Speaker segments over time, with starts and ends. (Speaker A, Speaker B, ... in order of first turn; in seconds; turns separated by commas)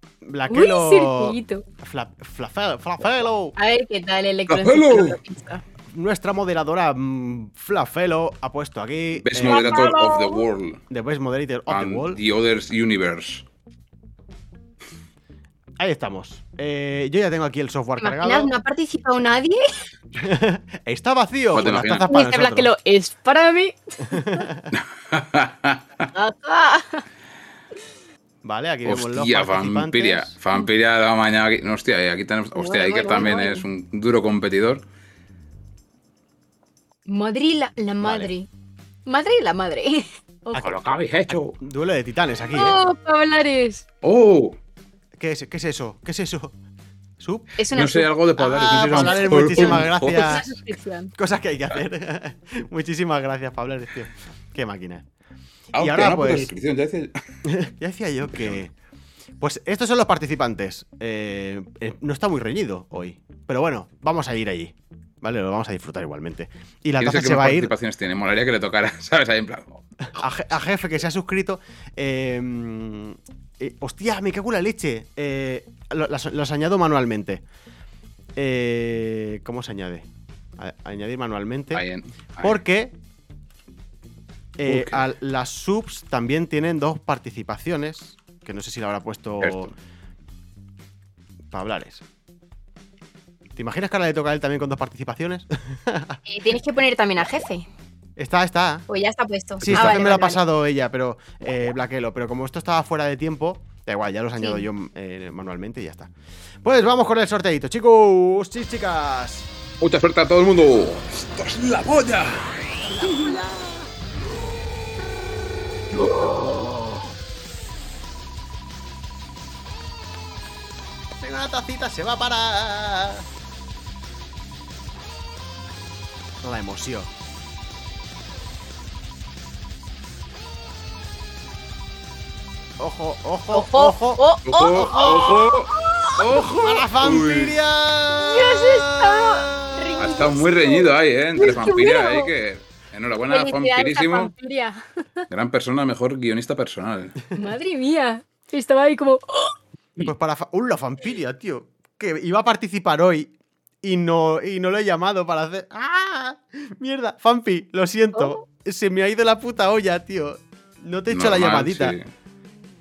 Speaker A: 0.2-3.5, Speaker B: 0.5-1.6, Speaker B: 3.5-5.6, Speaker C: 4.5-5.2, Speaker A: 5.9-9.9, Speaker C: 9.2-10.8, Speaker B: 9.4-10.4, Speaker A: 10.9-12.2, Speaker C: 11.7-13.4, Speaker A: 15.8-18.5, Speaker B: 18.0-19.6, Speaker A: 20.1-22.7, Speaker C: 21.5-22.1, Speaker B: 22.1-24.4, Speaker A: 24.1-24.6, Speaker C: 24.7-26.0, Speaker B: 26.1-27.0, Speaker A: 28.4-30.3, Speaker C: 28.8-34.8, Speaker B: 32.5-33.6, Speaker B: 37.0-38.5, Speaker A: 38.0-38.3, Speaker B: 39.0-40.7, Speaker C: 40.5-41.5, Speaker A: 41.3-42.8, Speaker B: 42.5-43.8, Speaker C: 44.0-44.6, Speaker A: 45.2-46.5, Speaker A: 47.2-47.5, Speaker B: 47.6-51.1, Speaker C: 47.7-50.4, Speaker A: 48.5-50.5, Speaker A: 51.2-55.0, Speaker C: 55.7-57.1, Speaker A: 55.7-56.5, Speaker A: 57.5-58.7, Speaker C: 58.3-58.6, Speaker A: 59.4-67.7, Speaker C: 67.0-69.8, Speaker A: 70.1-77.4, Speaker A: 78.3-80.1, Speaker A: 80.6-81.8, Speaker C: 81.7-82.6, Speaker A: 82.4-82.9, Speaker A: 84.6-89.7, Speaker C: 84.7-85.0, Speaker C: 89.4-89.7, Speaker A: 91.5-92.0, Speaker A: 93.5-96.2, Speaker B: 96.3-97.7, Speaker A: 98.2-98.8, Speaker B: 98.9-100.4, Speaker A: 99.6-106.1, Speaker A: 106.6-109.5, Speaker C: 109.8-112.7, Speaker B: 113.0-113.5, Speaker C: 116.0-116.8, Speaker A: 121.2-123.3, Speaker A: 126.4-127.1, Speaker A: 132.8-134.2, Speaker B: 133.5-136.5, Speaker C: 134.4-137.6, Speaker A: 134.8-135.2, Speaker A: 136.6-140.1, Speaker B: 138.1-142.3, Speaker C: 140.0-144.3, Speaker B: 143.3-144.8, Speaker C: 145.3-147.2, Speaker B: 147.3-149.5, Speaker A: 150.0-153.3, Speaker A: 153.8-162.0, Speaker B: 158.1-158.4, Speaker C: 161.1-162.1